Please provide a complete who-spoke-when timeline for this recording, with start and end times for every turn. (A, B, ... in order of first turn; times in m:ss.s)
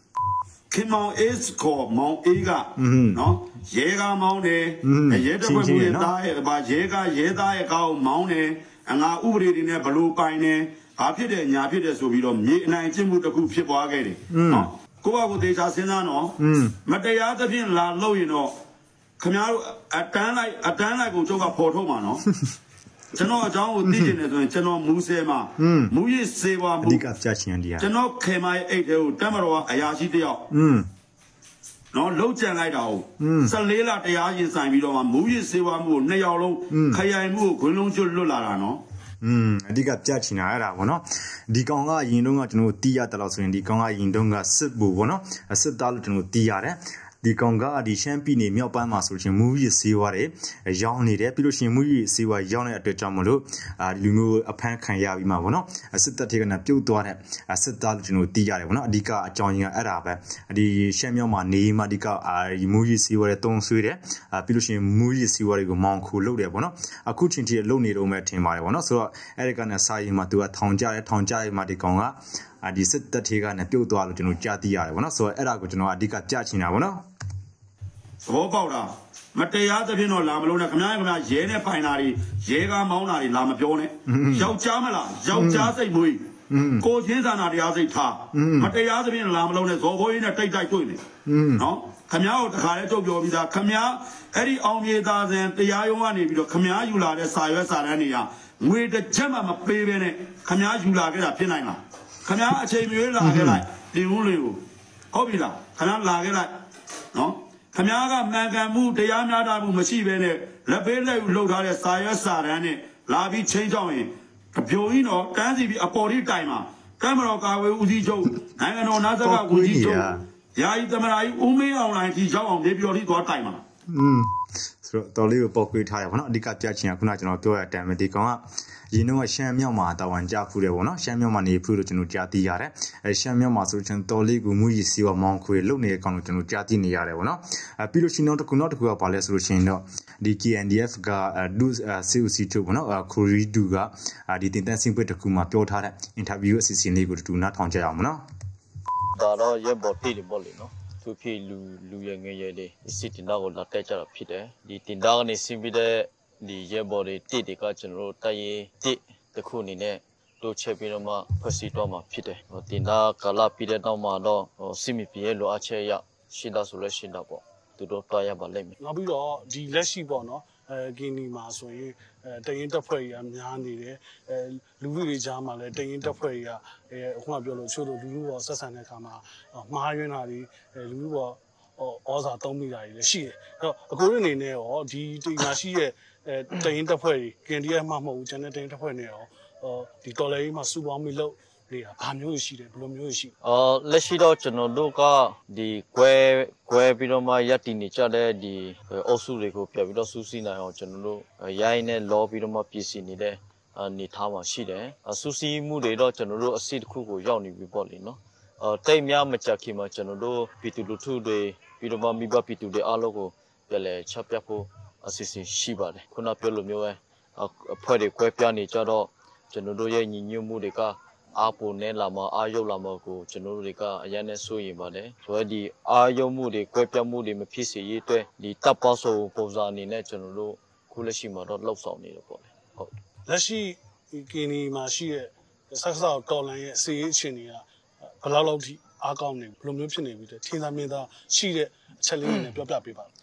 0:00.7-0:18.6 A
0:02.8-0:03.2 B
0:04.8-0:06.1 B
0:14.3-0:14.7 B
0:16.4-0:16.8 B
0:19.2-0:22.2 A
0:23.1-0:27.0 A
0:23.8-0:24.2 B
0:25.6-0:25.9 B
0:26.8-0:27.9 B
0:27.8-0:30.4 A
0:30.5-0:30.9 B
0:31.9-0:38.8 A
0:33.2-0:33.6 B
0:36.7-0:37.0 B
0:39.2-1:17.0 B
1:18.2-1:26.2 A
1:24.1-1:24.5 B
1:25.3-1:25.7 B
1:26.5-1:26.8 B
1:26.8-1:31.0 A
1:28.3-1:28.7 B
1:31.3-1:31.6 B
1:31.6-1:44.6 A
1:43.2-1:43.6 B
1:45.1-1:46.6 A
1:47.1-2:03.6 A
1:59.2-2:00.2 B
2:03.9-2:04.3 B
2:04.8-2:28.2 B
2:29.1-2:48.8 C
2:48.8-3:13.4 D
3:13.4-3:52.9 C
3:53.3-4:03.1 D